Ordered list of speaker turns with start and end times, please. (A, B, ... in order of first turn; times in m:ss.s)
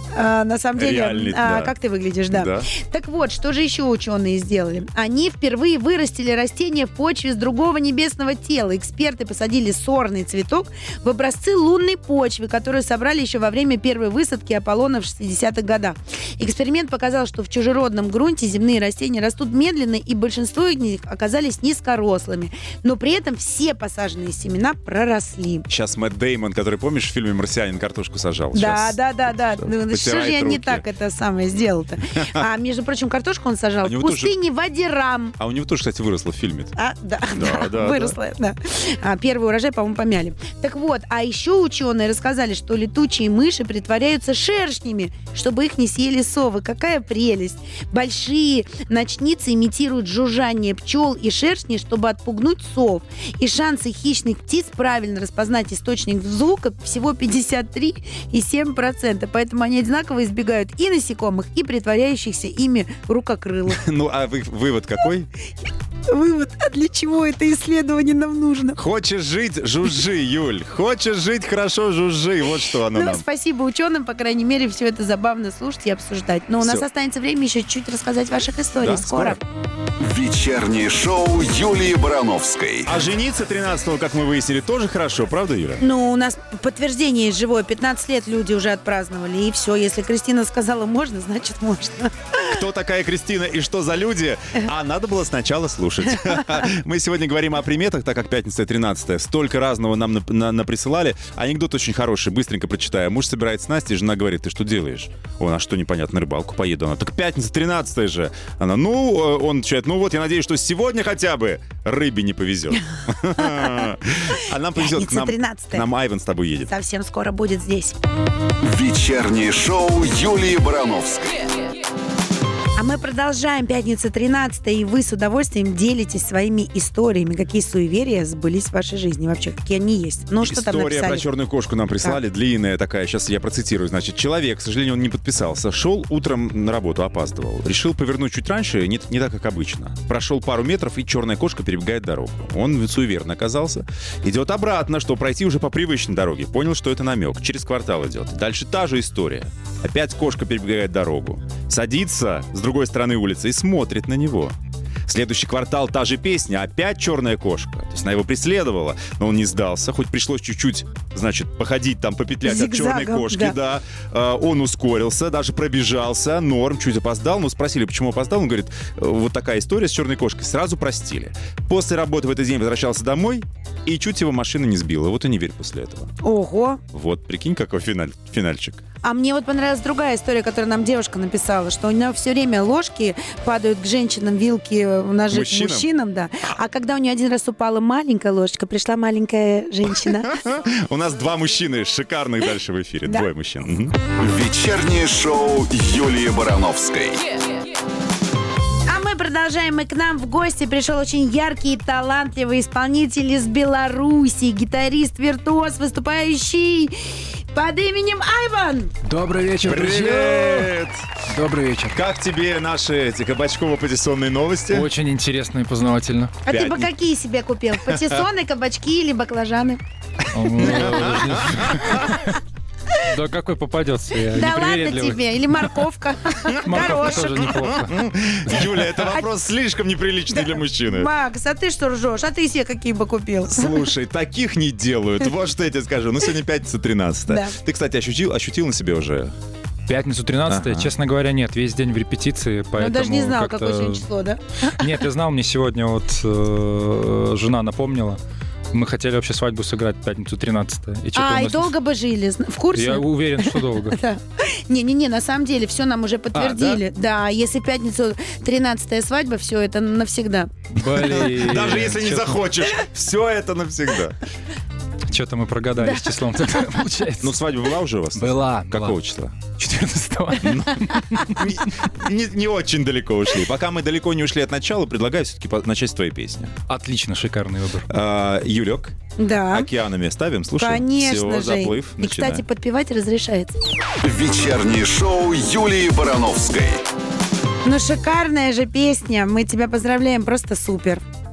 0:00.1-0:25.7 A
0:00.8-0:01.7 B
0:02.3-0:02.7 B
0:25.7-0:29.0 B
0:28.5-0:35.4 A
0:29.6-0:30.8 B
0:32.2-0:32.4 B
0:33.8-0:34.3 B
0:35.4-0:36.7 B
0:36.8-1:03.8 A
0:37.3-0:38.2 B
1:03.7-1:05.3 B
1:06.1-1:08.8 A
1:08.8-1:13.2 B
1:12.9-1:19.4 A
1:16.6-1:16.8 B
1:18.8-1:19.4 B
1:20.0-1:22.9 C
1:22.9-1:25.8 B
1:25.8-1:32.4 A
1:32.4-1:56.7 B
1:53.4-1:53.9 A
1:54.8-1:55.9 A
1:56.7-1:58.0 A
1:58.6-2:01.5 C
2:02.8-2:11.3 A
2:10.4-2:34.6 B
2:35.1-2:56.1 B
2:42.4-2:43.6 A
2:56.2-2:56.8 A
2:56.9-2:58.8 B
2:59.0-3:10.4 A
3:05.3-3:05.9 B
3:10.0-3:14.0 B
3:14.2-3:17.3 C
3:18.9-3:27.0 A
3:27.5-3:28.9 A
3:29.0-3:30.8 D
3:29.6-3:31.0 B
3:31.3-3:32.0 D
3:31.9-3:34.9 B
3:34.7-3:36.4 D
3:36.4-3:39.8 A
3:36.5-3:36.9 B
3:37.9-3:38.2 B
3:40.3-3:42.4 D
3:40.4-3:42.1 B
3:43.0-3:45.8 D
3:44.3-3:47.7 A
3:46.6-3:48.1 D
3:46.7-3:51.1 B
3:48.9-3:49.2 A
3:50.4-3:53.8 A
3:53.5-3:59.3 B
3:57.3-3:57.6 A
3:59.9-4:04.1 D
4:00.5-4:00.9 B
4:02.8-4:04.9 A
4:04.7-4:08.2 D
4:08.7-4:11.7 D
4:11.2-4:20.5 A
4:12.7-4:14.0 D
4:16.3-4:16.8 D
4:20.7-4:22.4 D
4:20.9-4:24.2 B
4:25.1-4:27.4 D
4:25.8-4:26.2 A
4:27.2-4:29.4 B
4:28.2-4:31.6 D
4:30.4-4:36.6 B
4:36.7-4:37.9 D
4:37.9-4:39.0 B
4:39.2-4:39.7 A
4:39.5-4:42.4 B
4:40.6-4:43.6 A
4:44.0-4:46.8 C
4:47.6-4:51.0 A